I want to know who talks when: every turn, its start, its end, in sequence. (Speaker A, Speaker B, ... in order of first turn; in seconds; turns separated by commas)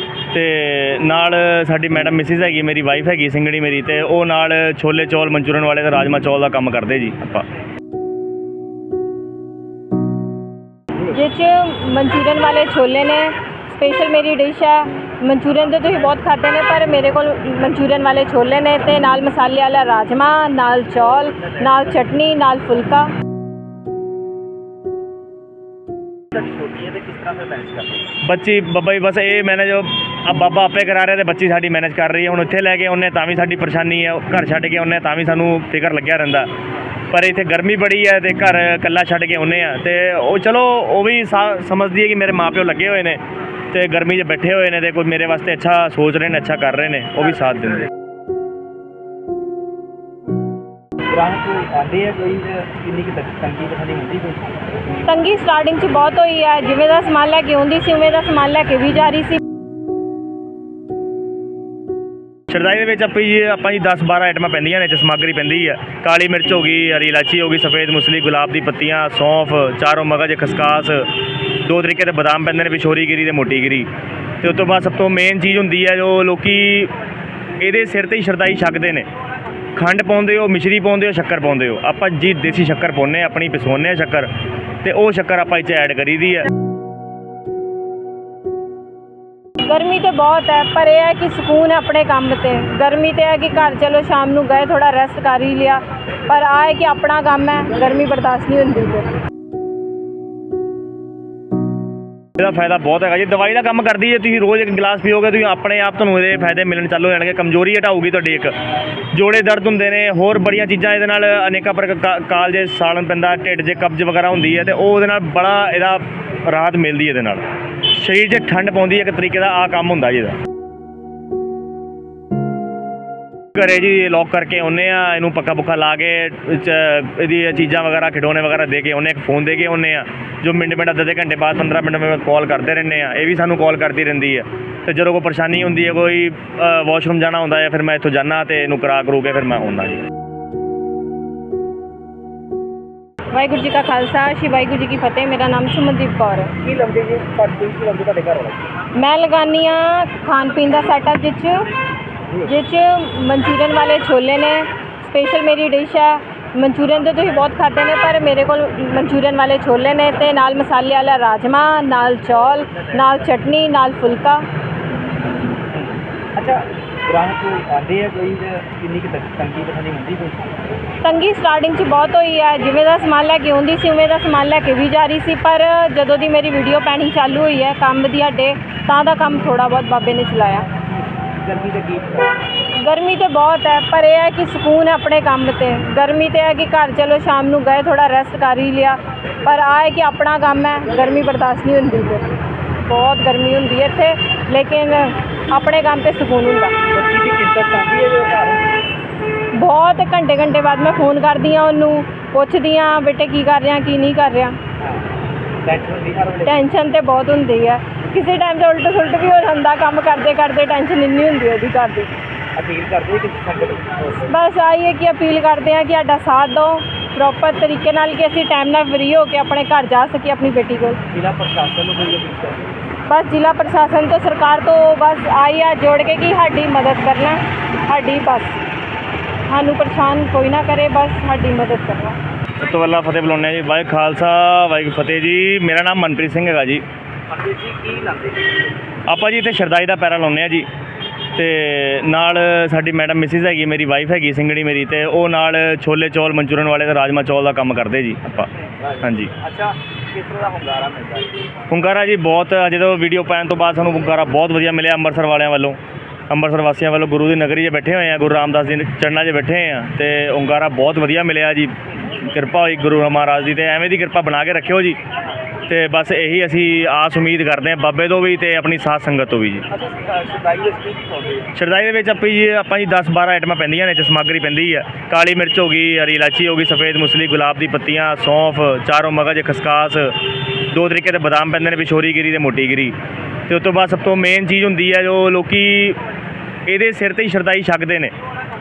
Speaker A: 0.3-7.5, Speaker B: 11.0-23.1, Speaker C: 26.3-28.1, Speaker A: 28.2-36.5, Speaker A: 37.1-47.9, Speaker C: 51.1-54.7, Speaker B: 55.0-59.4, Speaker A: 62.5-73.9, Speaker A: 74.4-76.9, Speaker A: 77.6-79.1, Speaker A: 79.7-86.5, Speaker B: 89.6-99.2, Speaker A: 102.4-120.4, Speaker A: 123.5-140.0, Speaker B: 143.3-146.6, Speaker C: 146.6-148.7, Speaker B: 148.9-151.7, Speaker B: 152.4-164.5, Speaker C: 165.7-170.8, Speaker B: 171.0-180.7, Speaker C: 181.2-182.4, Speaker B: 182.8-192.3, Speaker B: 192.8-196.8, Speaker C: 196.9-198.7, Speaker B: 199.5-204.6, Speaker C: 204.8-205.1, Speaker C: 205.6-206.6, Speaker B: 206.4-212.2, Speaker C: 212.6-214.3, Speaker B: 214.3-221.0, Speaker C: 221.1-222.8, Speaker B: 223.1-228.6, Speaker B: 229.5-232.2, Speaker A: 232.6-236.8, Speaker C: 237.3-238.7, Speaker A: 239.1-240.7, Speaker A: 241.3-249.3, Speaker C: 248.6-251.4, Speaker A: 251.7-255.8, Speaker A: 256.3-265.0, Speaker A: 265.7-269.7, Speaker C: 269.7-271.5, Speaker A: 271.5-283.0, Speaker A: 283.5-286.0, Speaker A: 286.6-288.1